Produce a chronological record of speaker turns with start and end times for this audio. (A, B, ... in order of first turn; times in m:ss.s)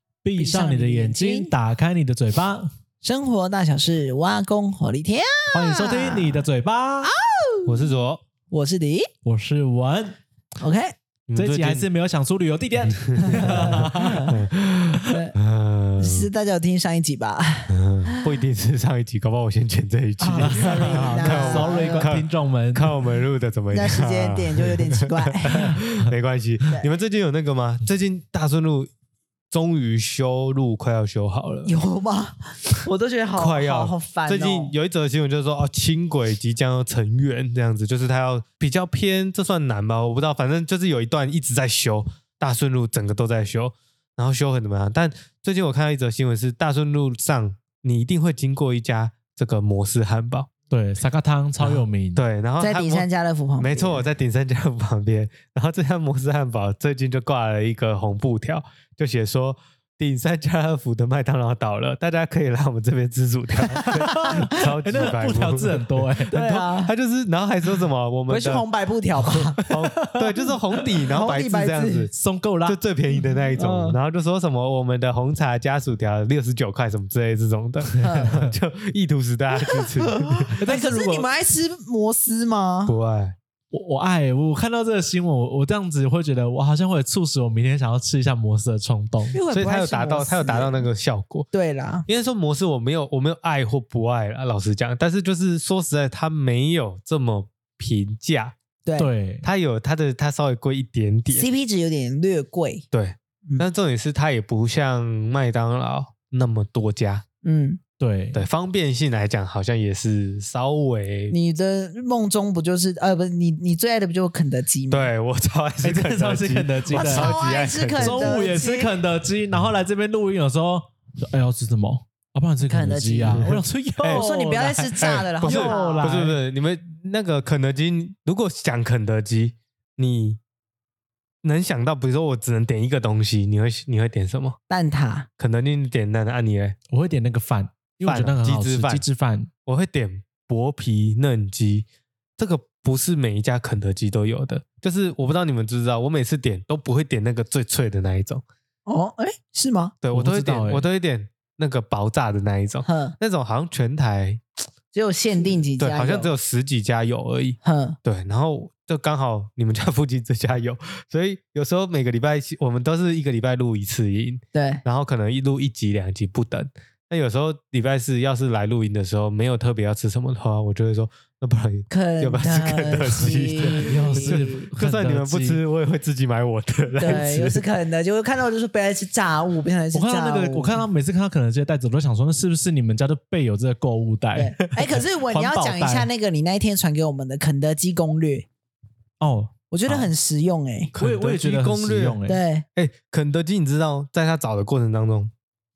0:00.2-0:02.7 A
0:00.4-0:01.5 B
0:03.0-0:06.4 B
0:05.5-0:07.1 A
0:07.0-0:07.9 B
0:07.7-0:08.2 C
0:08.5-0:09.1 B
0:09.2-0:10.2 A
0:10.6-0:11.0 B
0:11.3-0:11.9 C
0:11.3-0:14.4 A
0:13.1-0:16.3 C
0:13.2-0:14.4 B
0:15.1-0:15.4 B
0:16.0-0:18.3 B
0:17.7-0:28.9 C
0:20.2-0:22.1 B
0:20.4-0:23.0 A
0:23.7-0:25.8 B
0:29.5-0:31.7 C
0:31.6-0:34.7 B
0:33.4-0:50.5 C
0:50.7-0:52.2 A
0:51.6-0:53.1 C
0:52.6-0:54.0 B
0:53.6-1:08.6 C
1:03.7-1:04.5 B
1:03.8-1:06.6 A
1:06.3-1:06.9 B
1:08.3-1:09.6 B
1:09.3-1:12.1 C
1:09.6-1:10.2 A
1:11.1-1:12.1 B
1:12.1-1:12.8 A
1:12.7-1:20.6 C
1:13.6-1:14.0 B
1:18.0-1:18.4 B
1:18.1-1:18.5 A
1:19.6-1:23.0 B
1:20.6-1:21.3 A
1:22.9-1:23.4 C
1:23.7-1:29.4 A
1:29.3-1:30.8 B
1:29.5-1:31.5 C
1:31.5-1:32.1 B
1:32.1-1:38.6 C
1:39.0-1:39.5 A
1:39.4-1:41.5 C
1:41.3-1:42.9 B
1:42.9-1:47.2 C
1:47.4-1:47.8 B
1:48.0-1:48.4 A
1:48.3-1:51.4 C
1:51.3-1:55.1 B
1:54.9-1:58.4 C
1:55.8-1:57.4 A
1:56.9-1:59.0 B
1:58.0-2:06.4 A
2:02.6-2:03.6 B
2:03.4-2:04.3 C
2:04.1-2:06.2 B
2:05.0-2:10.4 C
2:11.4-2:14.6 C
2:14.7-2:15.3 B
2:15.4-2:16.8 C
2:16.9-2:19.5 A
2:18.0-2:19.1 C
2:19.7-2:21.9 C
2:22.4-2:28.4 C
2:28.9-2:30.0 B
2:30.0-2:34.4 C
2:30.1-2:30.8 A
2:32.8-2:33.2 B
2:34.9-2:36.3 B
2:35.8-2:57.6 C
2:37.6-2:38.0 B
2:44.5-2:44.8 B
2:51.9-2:54.7 B
2:53.6-2:55.6 A
2:57.0-3:00.8 B
2:59.9-3:06.1 A
3:04.4-3:08.5 B
3:09.2-3:10.1 A
3:09.7-3:10.9 B
3:10.9-3:12.2 C
3:11.0-3:12.4 A
3:12.3-3:12.6 B
3:12.8-3:15.3 C